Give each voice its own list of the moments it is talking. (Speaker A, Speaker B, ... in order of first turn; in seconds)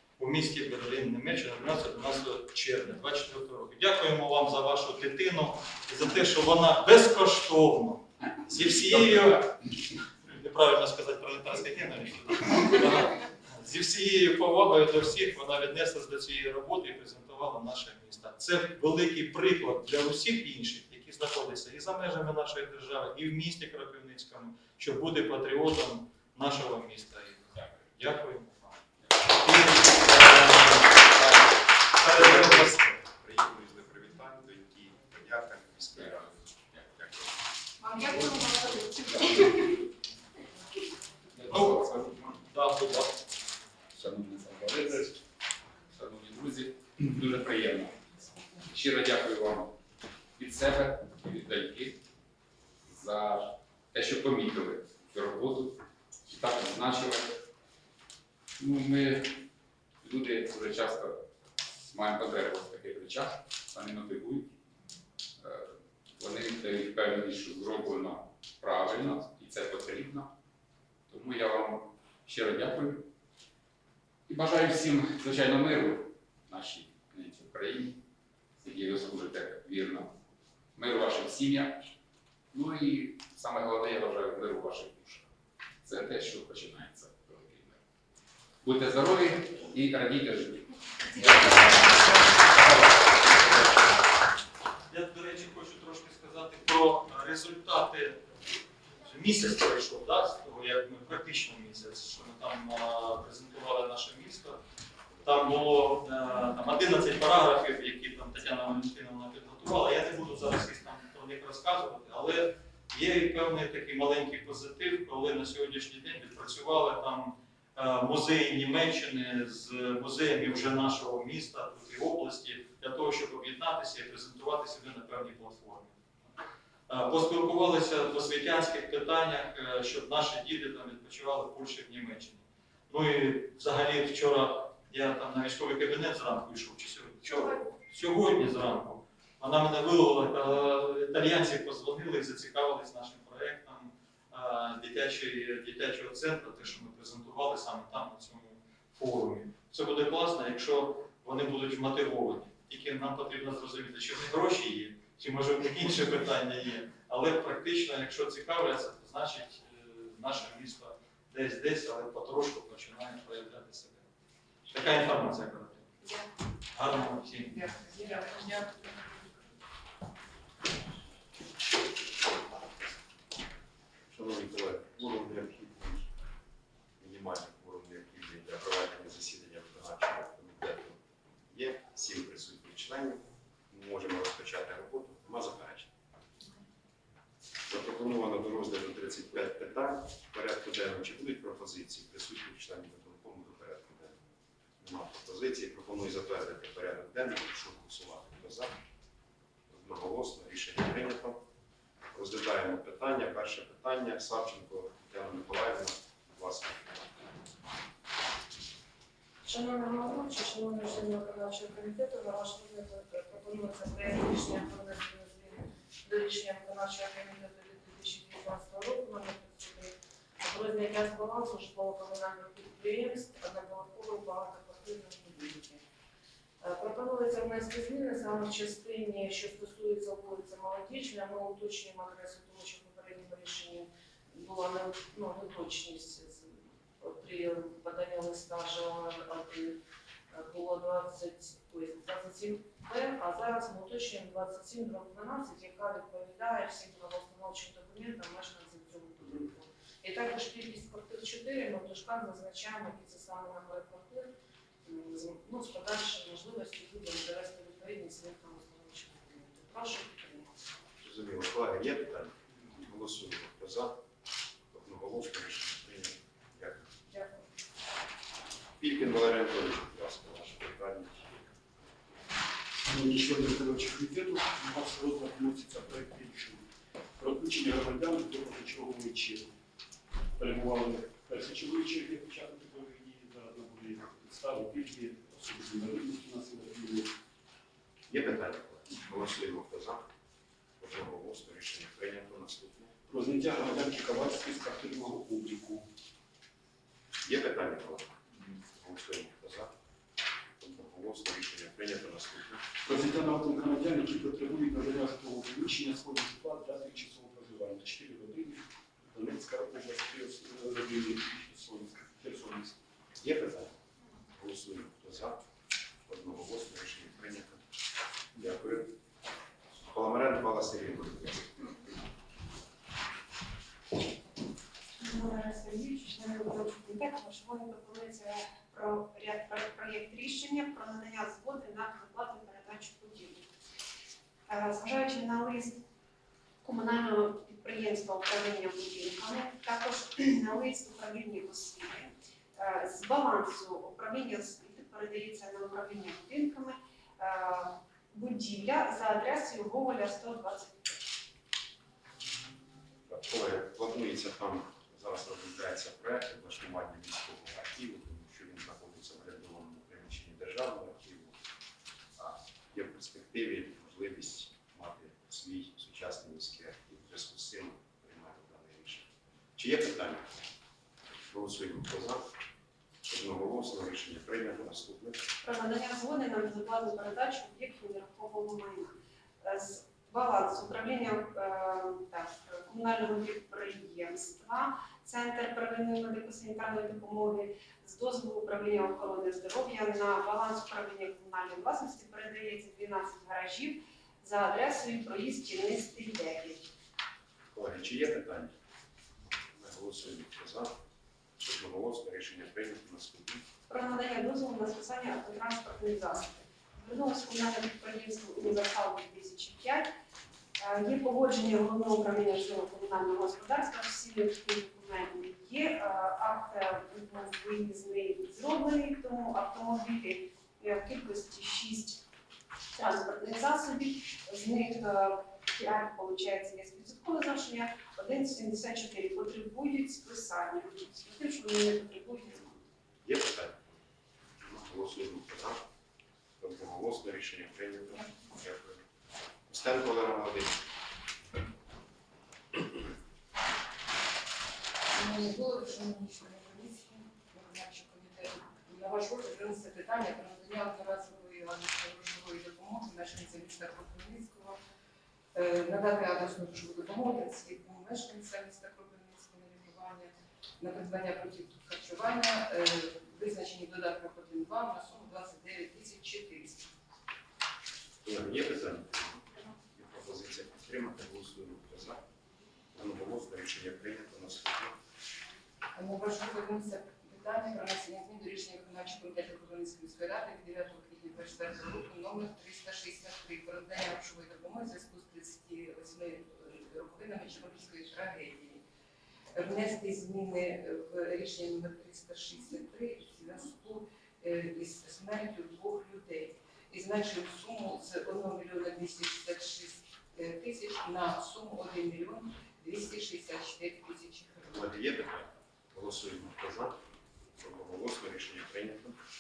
Speaker A: 0.2-9.7, 10.2-28.8, 29.3-32.9, 41.5-43.1, 94.9-98.2, 99.0-104.6, 105.2-126.0, 126.9-164.1, 164.7-165.9, 166.7-167.6
Speaker B: 32.1-37.3, 174.1-176.1, 177.0-185.9, 187.7-194.2, 194.8-198.7, 199.7-201.4, 202.1-207.0, 261.0-263.9, 264.7-266.9, 268.8-271.4, 288.1-290.0, 290.8-292.9, 297.2-298.1, 298.8-299.7, 300.6-302.6, 313.2-313.7, 314.4-315.4, 316.1-317.6, 318.4-318.9, 319.8-321.5, 353.1-361.4, 362.2-370.3, 371.3-372.2, 373.1-375.2, 397.5-398.5, 399.6-400.7, 401.4-403.5, 433.0-433.8, 434.4-435.6, 436.4-438.8, 439.5-440.7, 468.0-472.0, 472.7-474.8, 504.5-506.8, 507.4-509.0
Speaker C: 35.9-36.2, 38.4-39.6, 41.3-42.3, 43.9-45.2, 45.9-48.0, 48.6-49.8, 50.4-52.0, 52.9-57.4, 58.6-59.4, 60.0-61.2, 61.9-64.5, 65.4-70.3, 71.1-73.1, 74.3-78.0, 78.6-80.2, 80.8-82.0, 82.5-85.3, 85.8-87.8, 88.6-90.7, 91.2-92.9
Speaker D: 37.8-39.0, 325.0-333.5, 334.5-335.8, 336.6-351.1, 375.4-396.7, 403.7-409.9, 410.6-422.0, 422.7-432.6
Speaker E: 167.7-168.9, 444.9-454.6, 455.3-466.7, 475.8-488.6, 489.3-504.7
Speaker F: 209.4-225.8, 226.6-239.8, 240.3-254.3, 254.8-260.7, 267.1-267.5
Speaker G: 272.8-279.5, 280.4-287.1, 293.1-295.9, 302.9-312.8